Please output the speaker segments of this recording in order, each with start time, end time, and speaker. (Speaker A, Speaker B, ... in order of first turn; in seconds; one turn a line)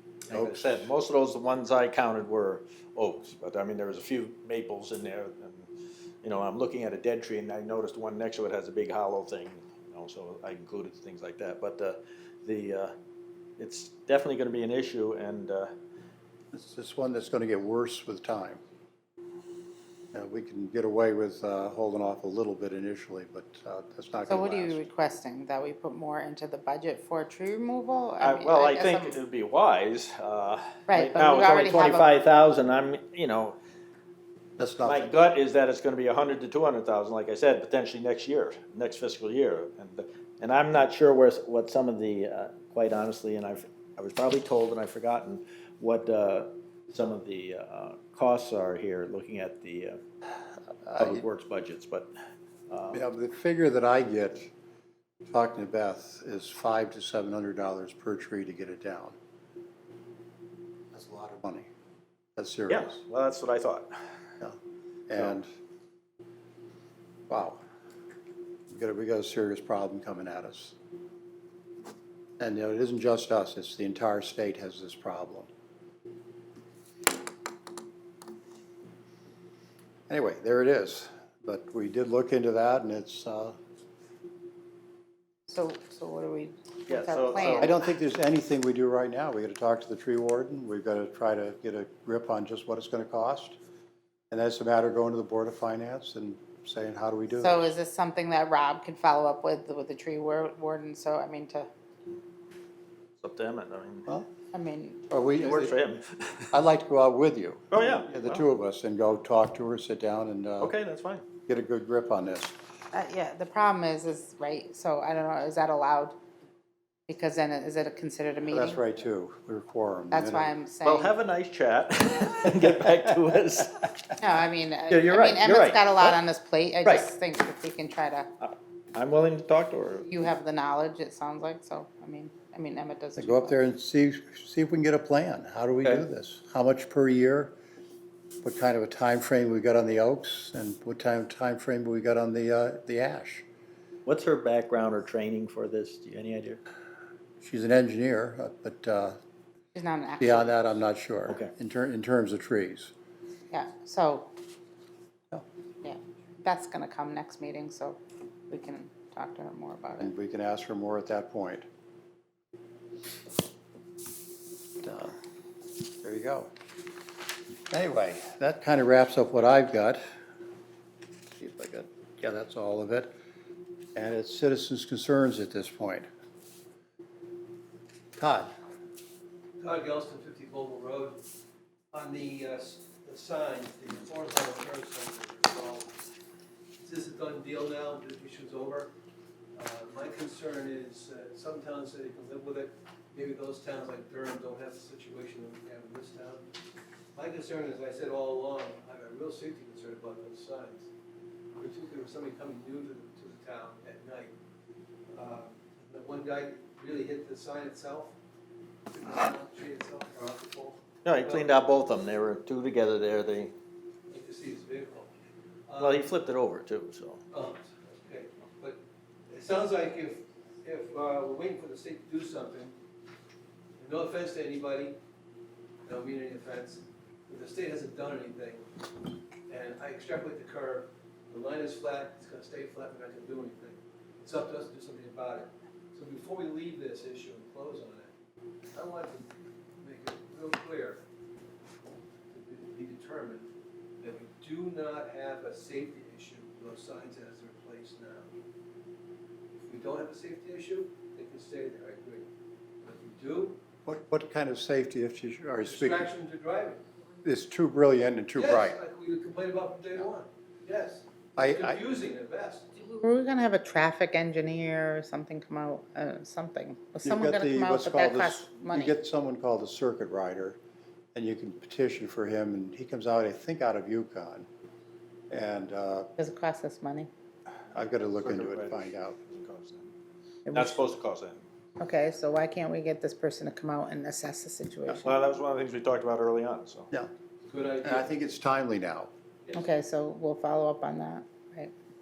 Speaker A: 0.3-5.7
Speaker B: 0.3-0.9
Speaker A: 6.2-12.9
Speaker A: 13.6-15.7
Speaker B: 16.5-18.6
Speaker B: 20.1-24.8
Speaker C: 24.3-29.2
Speaker A: 28.2-33.6
Speaker C: 30.9-32.1
Speaker B: 34.6-35.1
Speaker A: 34.9-50.0
Speaker B: 50.9-51.2
Speaker A: 51.0-52.1
Speaker A: 52.7-53.0
Speaker B: 52.9-54.5
Speaker B: 55.2-59.2
Speaker B: 60.9-61.7
Speaker B: 62.4-63.0
Speaker A: 62.7-63.9
Speaker B: 65.1-65.5
Speaker B: 67.3-67.6
Speaker B: 68.7-70.8
Speaker B: 72.4-75.5
Speaker B: 80.1-83.6
Speaker C: 85.5-87.7
Speaker A: 86.9-87.7
Speaker B: 87.4-93.6
Speaker B: 94.3-97.7
Speaker C: 97.4-101.7
Speaker A: 103.2-104.1
Speaker C: 104.5-105.1
Speaker B: 105.1-105.8
Speaker A: 105.3-106.5
Speaker B: 106.5-110.7
Speaker A: 107.7-108.4
Speaker A: 110.6-111.2
Speaker B: 111.5-112.5
Speaker C: 112.9-116.2
Speaker C: 117.1-118.8
Speaker B: 118.5-120.5
Speaker C: 120.1-121.1
Speaker A: 120.8-123.9
Speaker C: 124.2-128.3
Speaker A: 124.9-126.2
Speaker A: 128.4-130.1
Speaker C: 130.0-133.6
Speaker B: 133.2-137.6
Speaker B: 138.4-143.4
Speaker A: 144.1-146.6
Speaker B: 147.4-149.2
Speaker C: 149.8-150.5
Speaker B: 150.2-152.9
Speaker C: 153.5-154.3
Speaker C: 155.8-158.0
Speaker C: 158.5-160.1
Speaker B: 160.0-161.7
Speaker B: 164.8-165.2
Speaker B: 166.0-166.5
Speaker B: 167.7-170.0
Speaker B: 171.4-173.1
Speaker B: 173.9-176.1
Speaker B: 178.2-178.5
Speaker D: 179.6-181.2
Speaker D: 181.9-185.9
Speaker D: 186.8-188.9
Speaker D: 189.6-196.4
Speaker D: 197.1-200.9
Speaker D: 201.6-204.3
Speaker D: 205.1-208.2
Speaker D: 208.9-211.5
Speaker A: 211.1-213.5
Speaker D: 214.1-215.1
Speaker D: 215.7-216.1
Speaker A: 215.8-217.2
Speaker D: 217.3-222.7
Speaker D: 223.8-225.0
Speaker D: 225.8-228.6
Speaker D: 229.5-238.1
Speaker D: 238.7-241.0
Speaker D: 242.3-243.5
Speaker D: 244.0-248.3
Speaker D: 249.6-252.3
Speaker D: 252.8-253.6
Speaker B: 253.8-256.1
Speaker D: 255.6-256.8
Speaker B: 257.2-258.8
Speaker D: 258.4-262.8
Speaker B: 261.4-261.8
Speaker C: 262.9-268.9
Speaker B: 267.0-270.6
Speaker B: 271.1-274.5
Speaker B: 275.3-276.1
Speaker C: 276.2-277.1
Speaker B: 277.7-279.2
Speaker A: 278.2-279.9
Speaker C: 280.5-280.9
Speaker A: 280.5-281.4
Speaker C: 281.8-285.2
Speaker A: 285.0-286.9
Speaker D: 287.5-288.1
Speaker B: 287.8-289.1
Speaker C: 289.5-291.7